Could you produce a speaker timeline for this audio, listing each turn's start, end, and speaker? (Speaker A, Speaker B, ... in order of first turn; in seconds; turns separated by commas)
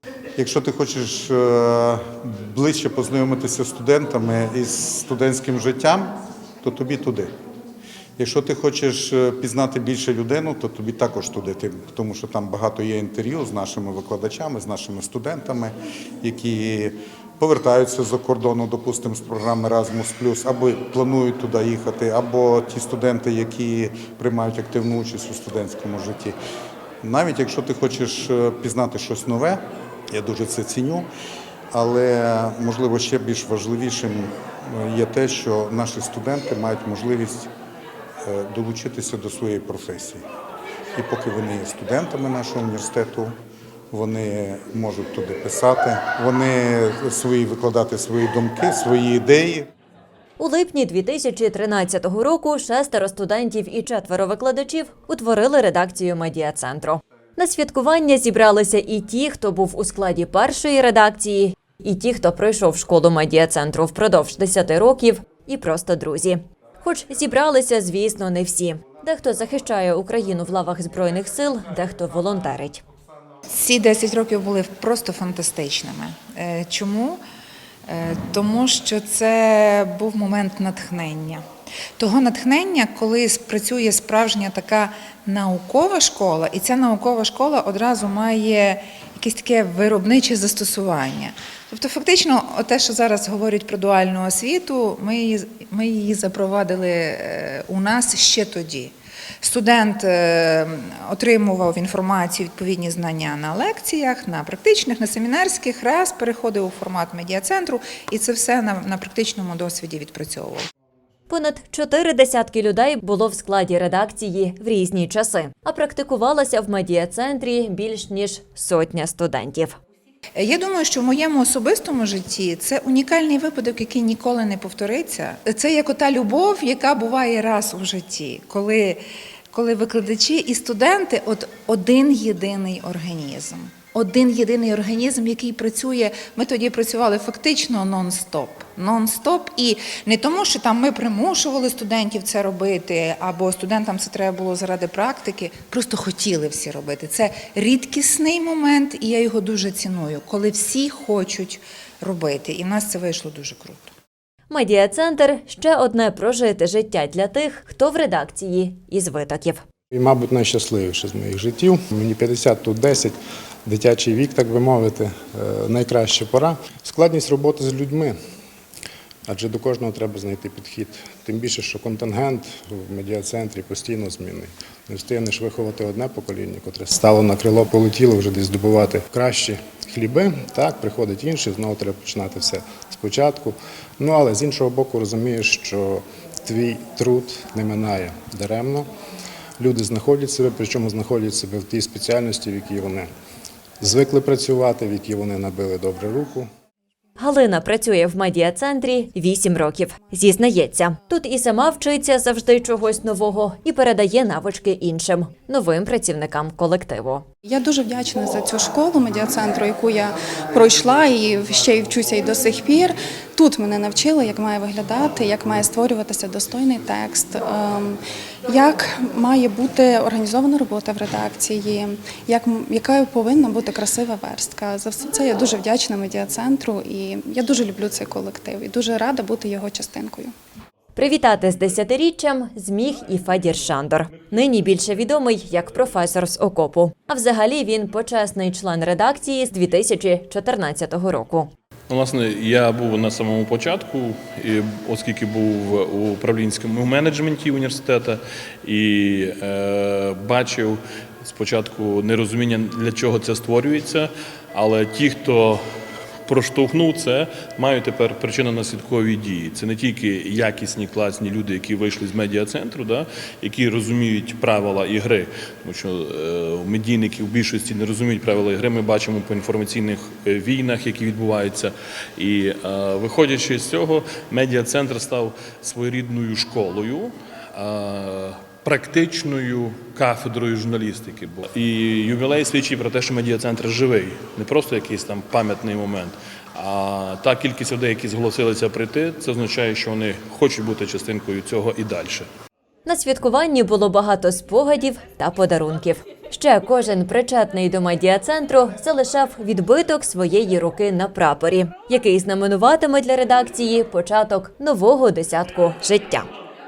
Speaker A: 0.3-7.3, Speaker A: 8.2-26.4, Speaker A: 27.0-31.1, Speaker A: 31.7-37.5, Speaker A: 38.2-40.2, Speaker A: 40.9-43.4, Speaker A: 43.9-49.7, Speaker B: 50.4-72.8, Speaker C: 73.5-77.2, Speaker C: 77.9-81.4, Speaker C: 82.0-110.7, Speaker B: 111.3-119.7, Speaker C: 120.3-153.9, Speaker B: 154.5-159.6, Speaker D: 159.9-163.1, Speaker D: 163.7-168.2, Speaker D: 169.3-188.8, Speaker D: 189.6-193.1, Speaker D: 193.8-196.5, Speaker B: 197.2-207.2, Speaker E: 207.4-230.3, Speaker B: 230.9-241.5, Speaker F: 241.9-255.6, Speaker F: 256.2-292.3, Speaker B: 292.8-306.3